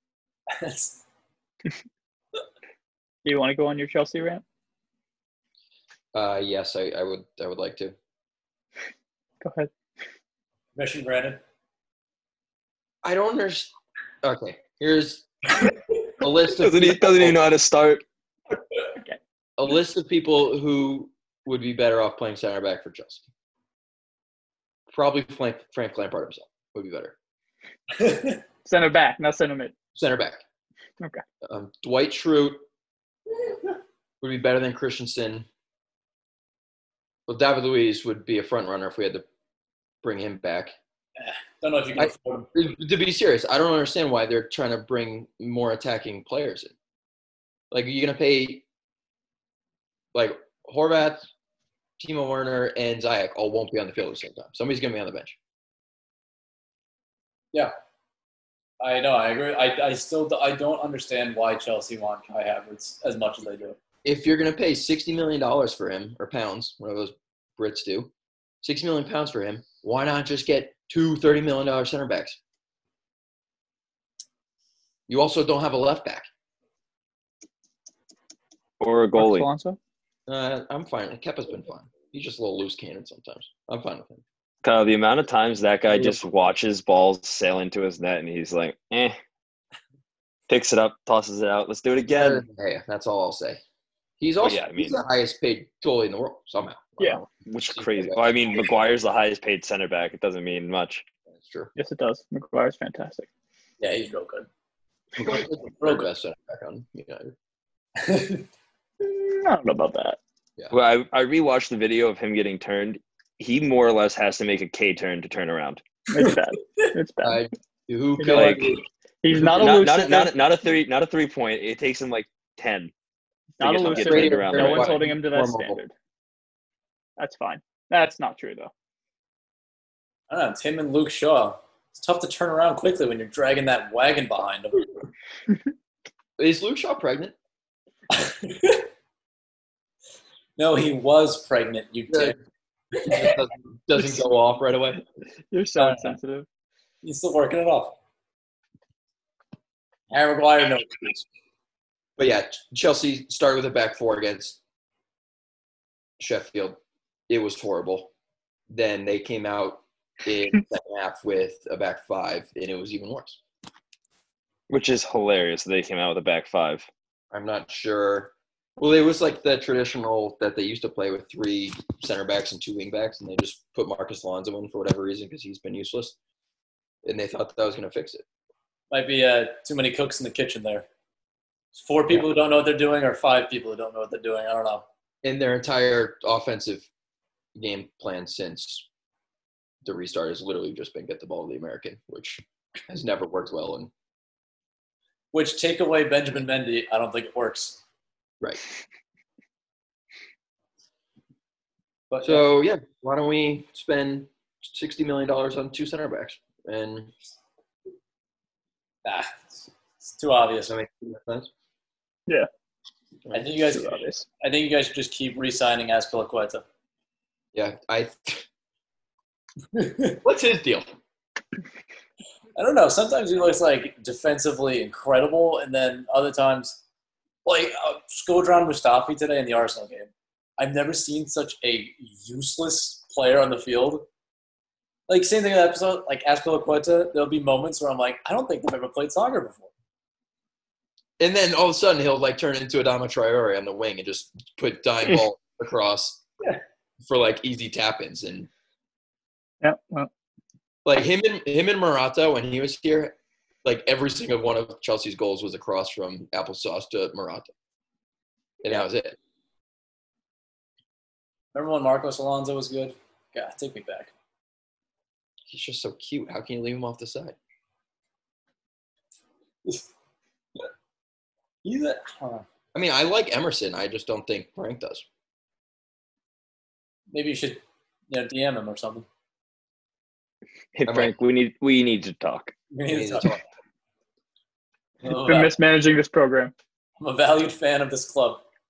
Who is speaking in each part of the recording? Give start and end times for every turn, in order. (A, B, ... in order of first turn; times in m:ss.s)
0:00.5-0:01.0 A
0:03.2-0:04.4 B
0:06.1-0:07.9 C
0:09.4-0:09.7 B
0:10.7-0:11.4 A
0:13.0-0:15.3 C
0:16.2-0:17.4 C
0:16.6-0:18.0 D
0:19.6-0:23.2 C
0:24.9-0:27.1 C
0:28.0-0:28.4 A
0:28.6-0:29.7 B
0:29.9-0:30.4 C
0:31.4-0:32.6 C
0:34.2-0:35.4 C
0:37.3-0:39.2 C
0:40.0-0:40.7 C
0:41.2-0:42.5 A
0:42.0-0:46.7 C
0:47.7-0:48.6 C
0:50.1-0:51.3 C
0:52.0-0:55.4 C
0:58.8-1:03.8 A
1:04.0-1:08.1 C
1:08.6-1:12.4 C
1:15.1-1:16.3 C
1:18.8-1:19.5 D
1:19.2-1:19.8 B
1:20.3-1:24.2 C
1:24.6-1:29.2 D
1:30.5-1:32.4 D
1:32.1-1:33.6 C
1:34.2-1:38.2 C
1:34.4-1:35.0 D
1:37.4-1:41.0 D
1:41.3-1:41.7 C
1:41.8-1:43.3 B
1:43.8-1:44.5 A
1:45.2-1:47.3 C
1:45.8-1:46.1 A
1:48.0-1:48.4 A
1:49.0-1:50.2 B
1:50.7-1:55.8 D
1:56.1-1:57.4 B
1:56.1-1:56.9 A
1:57.2-1:58.8 C
1:58.2-1:58.7 B
1:58.3-1:58.7 D
1:59.2-2:00.3 B
1:59.4-2:02.9 D
2:03.6-2:05.9 B
2:03.6-2:05.0 D
2:03.9-2:05.8 C
2:07.2-2:08.7 B
2:10.3-2:14.8 A
2:16.4-2:17.3 C
2:18.1-2:18.9 A
2:20.6-2:22.4 A
2:22.9-2:23.4 A
2:23.0-2:25.0 C
2:25.5-2:26.4 B
2:25.8-2:26.2 A
2:27.0-2:28.0 A
2:30.1-2:31.2 A
2:32.2-2:34.6 C
2:36.2-2:36.8 C
2:37.3-2:38.1 C
2:38.7-2:43.4 C
2:44.7-2:46.9 D
2:47.3-2:56.2 C
2:57.0-2:58.2 C
2:58.9-3:00.8 A
3:01.7-3:04.8 A
3:05.2-3:06.9 C
3:07.5-3:08.8 C
3:09.8-3:13.9 C
3:15.3-3:17.8 A
3:22.1-3:22.4 A
3:22.2-3:27.1 C
3:29.0-3:30.7 A
3:30.7-3:31.5 C
3:33.2-3:33.5 C
3:33.3-3:36.6 A
3:33.7-3:34.2 B
3:37.5-3:38.4 C
3:39.7-3:40.2 A
3:40.2-3:40.9 C
3:42.5-3:46.8 A
3:47.4-3:54.0 A
3:55.1-3:59.7 A
4:01.2-4:06.2 C
4:07.0-4:08.5 C
4:09.6-4:10.1 B
4:10.8-4:17.5 C
4:18.6-4:19.2 C
4:21.5-4:24.1 A
4:25.5-4:27.4 C
4:31.6-4:32.4 A
4:32.7-4:35.0 C
4:37.1-4:39.0 A
4:40.7-4:42.5 D
4:40.9-4:41.1 C
4:42.7-4:43.4 A
4:42.9-4:43.4 C
4:45.0-4:45.5 A
4:45.2-4:46.5 B
4:47.0-4:48.4 A